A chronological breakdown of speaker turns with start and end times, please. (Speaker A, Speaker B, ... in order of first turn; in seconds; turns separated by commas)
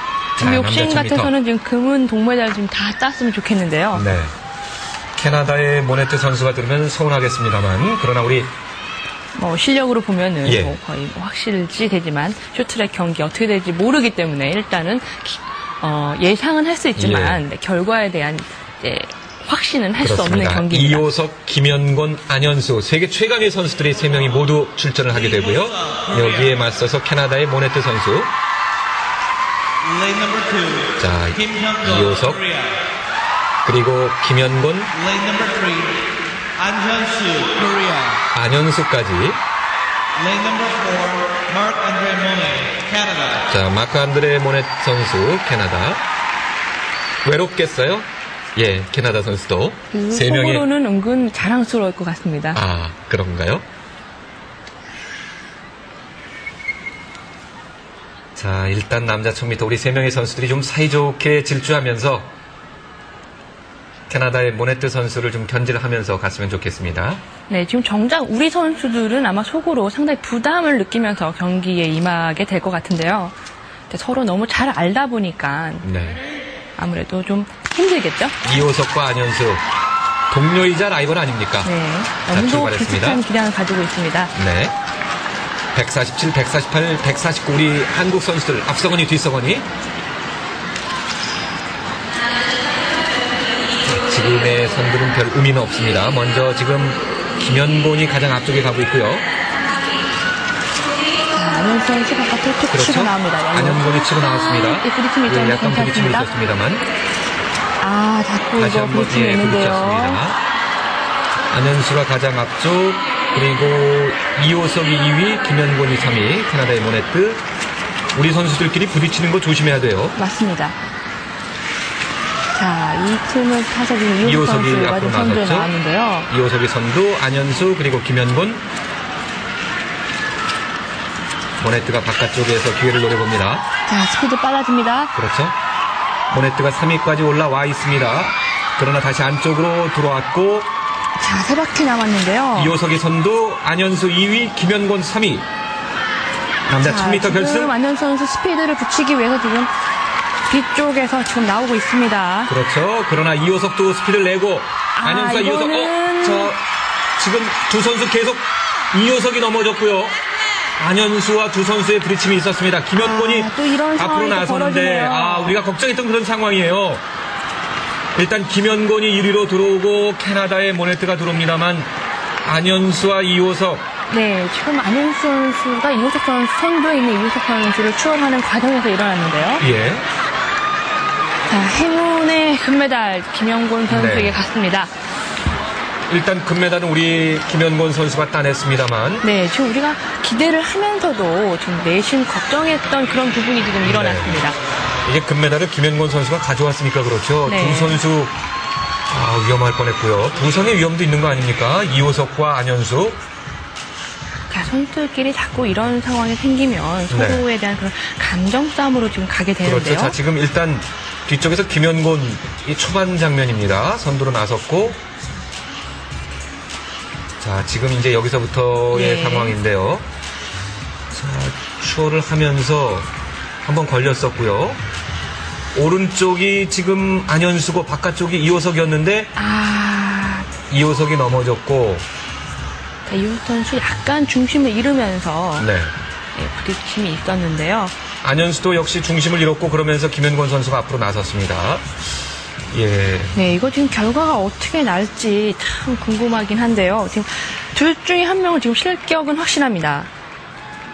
Speaker A: 0.4-4.1, Speaker B: 0.4-1.3, Speaker B: 3.9-4.3, Speaker B: 5.2-8.5, Speaker A: 9.3-21.1, Speaker B: 10.4-10.8, Speaker B: 16.9-17.4, Speaker B: 20.0-28.3, Speaker C: 30.1-30.9, Speaker B: 30.9-32.5, Speaker B: 33.6-35.1, Speaker C: 35.2-35.9, Speaker C: 36.6-38.1, Speaker B: 38.3-39.4, Speaker C: 40.2-43.3, Speaker B: 43.4-46.0, Speaker B: 47.2-50.7, Speaker A: 49.9-52.6, Speaker B: 52.5-53.6, Speaker B: 58.4-62.3, Speaker B: 64.1-67.2, Speaker A: 67.5-73.3, Speaker A: 73.9-75.9, Speaker B: 75.8-76.2, Speaker A: 76.8-78.4, Speaker B: 78.4-79.6, Speaker B: 80.3-81.7, Speaker A: 81.6-84.3, Speaker B: 82.3-83.2, Speaker B: 84.3-84.8, Speaker B: 85.7-89.7, Speaker B: 93.8-99.3, Speaker A: 101.3-104.1, Speaker B: 102.7-106.9, Speaker A: 104.6-106.4, Speaker A: 107.8-110.2, Speaker B: 108.5-110.4, Speaker B: 111.5-117.4, Speaker B: 118.1-120.2, Speaker A: 120.2-120.8, Speaker A: 122.5-126.3, Speaker B: 124.2-125.7, Speaker B: 126.3-128.7, Speaker B: 131.6-133.6, Speaker A: 133.8-135.1, Speaker B: 135.1-135.5, Speaker B: 136.3-140.7, Speaker A: 141.2-142.7, Speaker B: 142.5-145.5, Speaker B: 146.7-147.7, Speaker A: 146.8-149.7, Speaker A: 150.5-152.5, Speaker B: 152.5-156.6, Speaker A: 154.9-156.5, Speaker B: 157.2-160.2, Speaker B: 160.8-167.0, Speaker A: 162.9-165.6, Speaker B: 168.1-171.9, Speaker B: 172.4-173.8, Speaker A: 174.1-179.6, Speaker B: 179.6-180.0, Speaker A: 181.5-184.9, Speaker B: 183.9-184.4, Speaker B: 186.1-189.2, Speaker A: 189.2-194.6, Speaker B: 193.8-194.4, Speaker B: 195.0-198.3, Speaker A: 197.4-198.0, Speaker B: 199.1-203.2, Speaker A: 204.5-210.2, Speaker B: 207.1-207.4, Speaker B: 209.6-215.0, Speaker B: 217.4-220.1, Speaker A: 218.9-219.6, Speaker B: 221.1-223.1, Speaker B: 223.6-224.8, Speaker B: 225.7-229.3, Speaker A: 229.3-230.5, Speaker B: 230.7-232.1, Speaker A: 233.1-235.7, Speaker B: 235.6-235.9, Speaker A: 236.3-237.9, Speaker B: 238.2-242.0, Speaker B: 242.7-243.3, Speaker A: 243.3-250.1